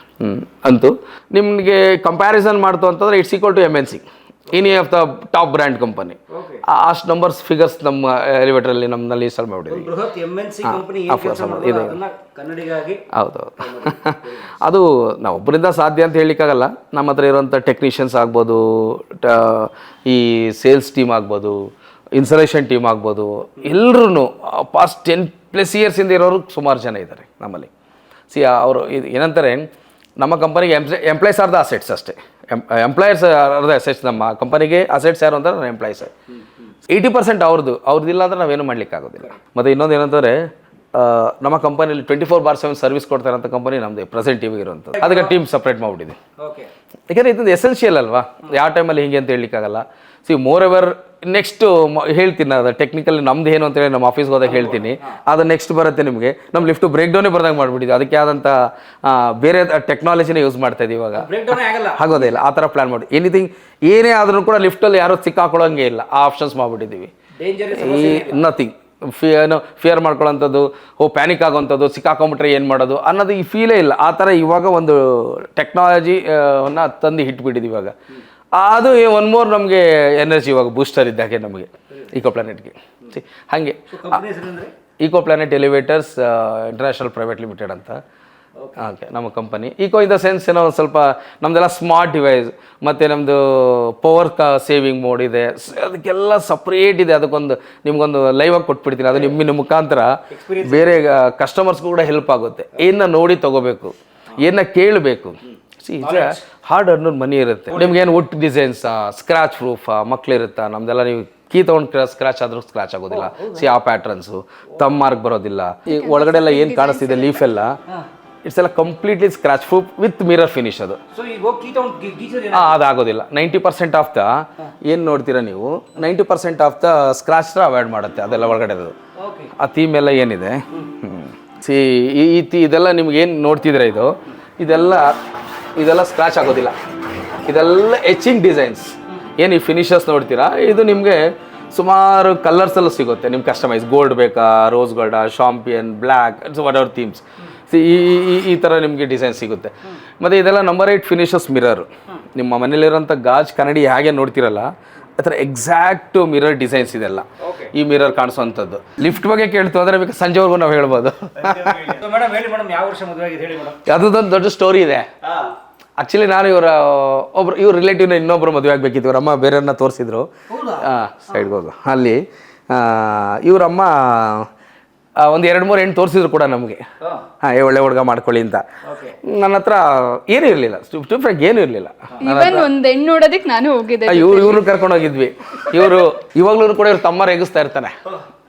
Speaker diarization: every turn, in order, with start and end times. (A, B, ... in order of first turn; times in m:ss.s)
0:00.2-0:09.9 A
0:06.3-0:06.6 B
0:09.7-0:13.0 B
0:10.6-0:12.0 A
0:13.1-0:27.7 A
0:13.6-0:14.6 B
0:28.3-0:29.7 A
0:30.2-0:36.1 A
0:36.9-0:46.2 A
0:46.4-0:46.7 B
0:47.1-1:01.3 A
0:54.4-0:55.1 B
1:01.2-1:02.4 B
1:01.9-1:07.1 A
1:07.4-1:08.4 B
1:07.7-1:17.9 A
1:18.5-1:24.2 A
1:23.9-1:24.7 B
1:25.0-1:28.0 A
1:28.8-1:57.8 A
1:40.3-1:41.0 B
1:46.0-1:46.4 B
1:53.1-1:53.7 B
1:55.9-1:57.4 C
1:58.4-2:01.0 A
2:01.1-2:02.8 B
2:02.5-2:08.9 A
2:09.2-2:09.5 B
2:09.6-2:15.2 A
2:15.7-2:16.7 A
2:17.4-2:41.9 A
2:37.4-2:37.7 B
2:41.4-2:43.8 B
2:43.8-2:45.1 A
2:45.2-2:45.5 B
2:46.0-2:54.5 A
2:50.5-2:50.9 B
2:55.2-2:56.8 A
2:57.4-2:58.6 A
2:58.8-2:59.2 B
2:59.2-3:02.7 A
3:02.2-3:04.8 C
3:04.1-3:08.0 A